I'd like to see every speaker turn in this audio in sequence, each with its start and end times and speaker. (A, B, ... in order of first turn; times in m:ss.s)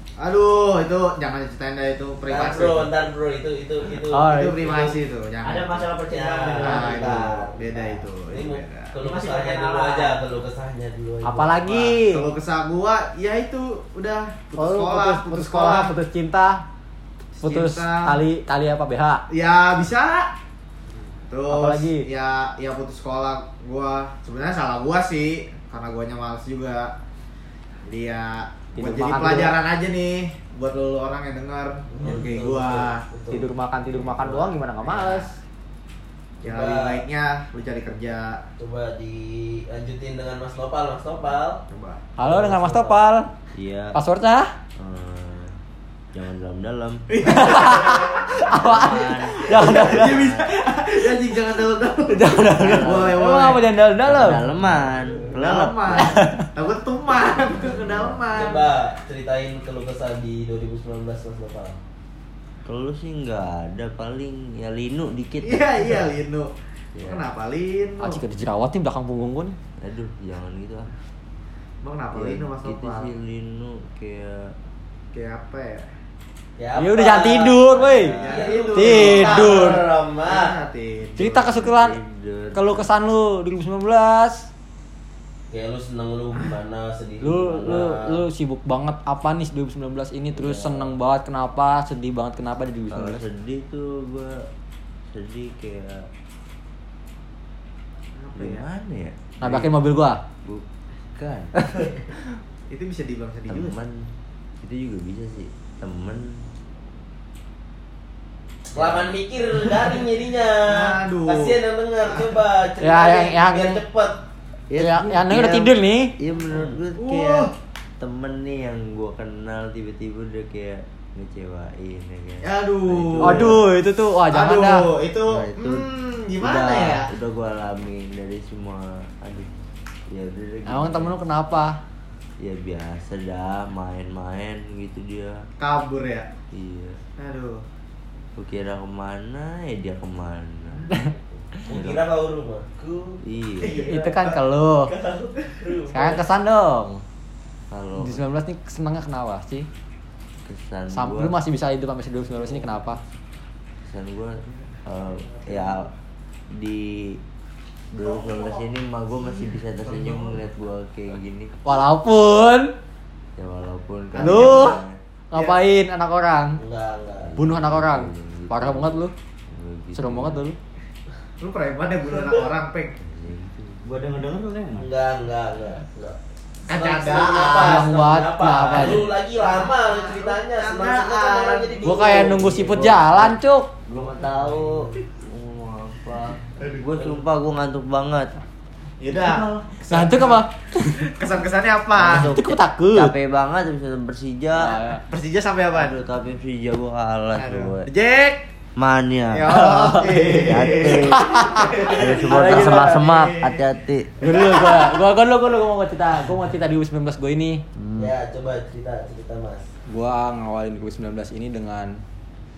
0:00.2-0:02.9 A
0:02.3-0:05.0 B
0:04.1-0:04.7 C
0:04.2-0:05.9 A
0:05.4-0:07.3 D
0:06.0-0:11.6 B
0:06.6-0:09.0 A
0:09.0-0:10.2 D
0:11.2-0:12.3 C
0:11.6-0:15.9 A
0:14.6-0:16.6 C
0:17.4-0:18.2 A
0:17.4-0:19.2 C
0:19.3-0:20.3 A
0:21.3-0:26.9 A
0:21.5-0:22.1 C
0:27.8-0:33.0 A
0:28.8-0:29.6 C
0:31.9-0:33.5 B
0:33.3-0:35.4 C
0:34.8-0:35.3 A
0:36.4-0:38.4 A
0:36.4-0:37.0 B
0:38.6-0:41.6 B
0:41.7-0:42.0 A
0:42.2-0:43.3 C
0:42.2-0:43.0 B
0:43.5-0:44.0 E
0:43.9-0:44.5 C
0:44.8-0:45.6 E
0:46.1-0:50.5 E
0:47.1-0:48.5 A
0:47.3-0:50.3 C
0:49.4-0:53.6 A
0:52.1-0:54.4 C
0:52.4-0:53.3 E
0:54.0-0:56.2 E
0:55.3-0:58.7 A
0:56.0-0:56.4 C
0:57.6-0:58.2 E
0:58.3-1:01.8 B
1:02.6-1:06.0 E
1:05.4-1:06.5 A
1:07.0-1:07.2 E
1:07.0-1:08.2 A
1:08.0-1:09.6 C
1:09.8-1:10.9 E
1:11.8-1:13.1 A
1:12.1-1:14.5 E
1:15.1-1:15.9 A
1:16.6-1:20.6 B
1:16.8-1:18.2 C
1:17.8-1:18.6 E
1:18.1-1:21.5 A
1:18.7-1:19.8 C
1:21.2-1:22.0 C
1:21.2-1:22.9 E
1:22.5-1:24.5 C
1:25.5-1:28.2 B
1:27.2-1:33.2 C
1:30.4-1:30.8 E
1:32.9-1:34.5 E
1:35.1-1:36.1 E
1:38.2-1:38.7 A
1:38.4-1:39.7 E
1:39.4-1:40.2 C
1:40.4-1:41.6 E
1:42.7-1:43.8 A
1:43.5-1:46.5 E
1:48.7-1:54.2 B
1:48.8-1:49.1 E
1:50.6-1:51.6 A
1:52.8-1:53.8 C
1:54.7-2:03.6 E
1:54.8-1:56.2 C
1:57.0-1:57.5 A
2:02.4-2:03.6 A
2:03.2-2:04.9 C
2:04.3-2:07.1 A
2:05.3-2:05.9 E
2:06.4-2:07.0 C
2:07.0-2:09.5 E
2:10.1-2:11.2 E
2:10.7-2:11.8 C
2:12.4-2:15.5 E
2:15.6-2:16.3 A
2:16.5-2:17.0 E
2:17.2-2:17.6 A
2:18.4-2:21.0 E
2:21.6-2:22.8 B
2:21.7-2:22.0 E
2:22.8-2:24.3 A
2:23.2-2:23.8 E
2:23.6-2:24.3 B
2:23.8-2:24.9 C
2:24.9-2:26.2 B
2:25.9-2:27.0 C
2:27.7-2:28.2 E
2:28.0-2:29.7 C
2:30.4-2:31.4 E
2:30.9-2:33.0 C
2:33.8-2:35.9 E
2:35.3-2:35.8 A
2:36.5-2:37.2 E
2:37.9-2:41.6 E
2:38.0-2:38.6 A
2:39.8-2:40.4 A
2:41.6-2:42.7 C
2:43.4-2:45.0 E
2:44.2-2:44.8 A
2:44.2-2:44.8 C
2:45.3-2:46.6 C
2:45.3-2:45.6 A
2:46.6-2:47.3 B
2:47.2-2:50.4 E
2:47.4-2:49.1 C
2:50.0-2:50.6 C
2:51.4-2:53.0 A
2:53.0-2:53.9 E
2:53.8-2:54.9 D
2:54.8-2:56.2 B
2:56.7-2:57.8 A
2:56.7-3:02.6 B
2:57.6-2:59.1 C
2:59.4-3:02.1 A
3:01.8-3:03.7 C
3:02.3-3:08.4 E
3:06.6-3:07.1 A
3:09.0-3:10.4 A
3:09.9-3:11.1 C
3:11.0-3:12.3 A
3:12.0-3:14.8 E
3:12.1-3:13.1 C
3:14.6-3:15.0 C
3:15.1-3:16.0 A
3:15.7-3:17.9 E
3:17.4-3:18.4 A
3:18.8-3:24.1 E
3:19.3-3:23.6 A
3:19.8-3:20.1 D
3:21.0-3:23.0 C
3:24.2-3:27.6 C
3:27.8-3:28.1 E
3:28.0-3:29.7 B
3:29.9-3:32.0 C